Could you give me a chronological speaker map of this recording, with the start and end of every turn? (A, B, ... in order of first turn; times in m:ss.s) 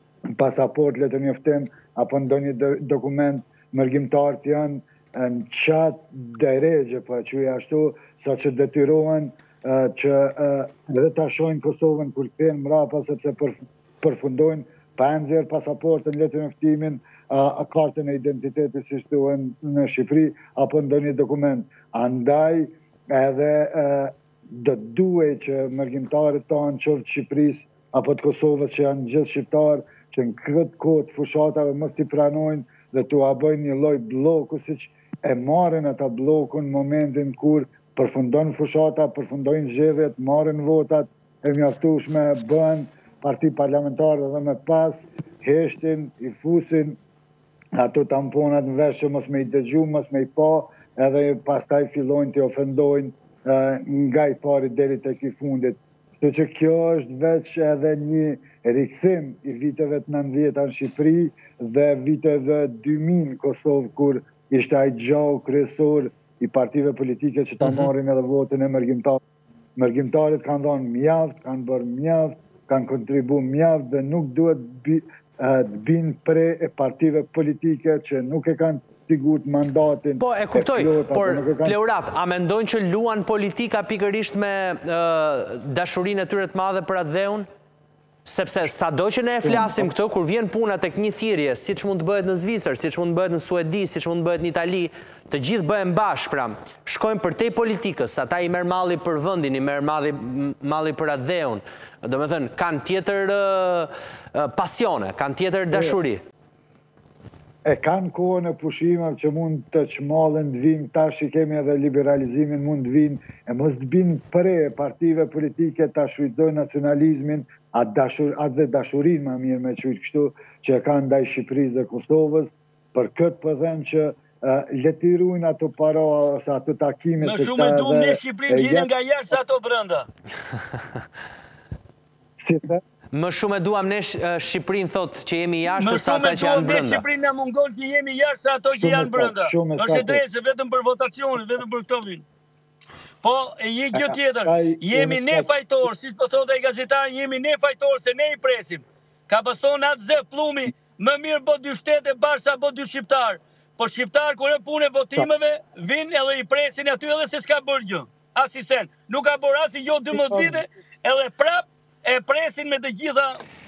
0:00.4-0:47.0 A
0:47.8-1:09.2 A
1:07.6-1:07.9 B
1:09.8-1:21.8 A
1:20.2-1:27.4 B
1:28.2-1:46.2 B
1:29.4-1:29.9 A
1:45.7-1:46.0 A
1:47.6-2:08.9 A
2:07.2-2:10.1 C
2:12.4-2:12.8 A
2:13.1-2:17.0 B
2:15.7-2:22.2 C
2:18.7-2:20.2 A
2:23.2-2:43.4 C
2:23.9-2:25.5 A
2:40.1-2:40.5 A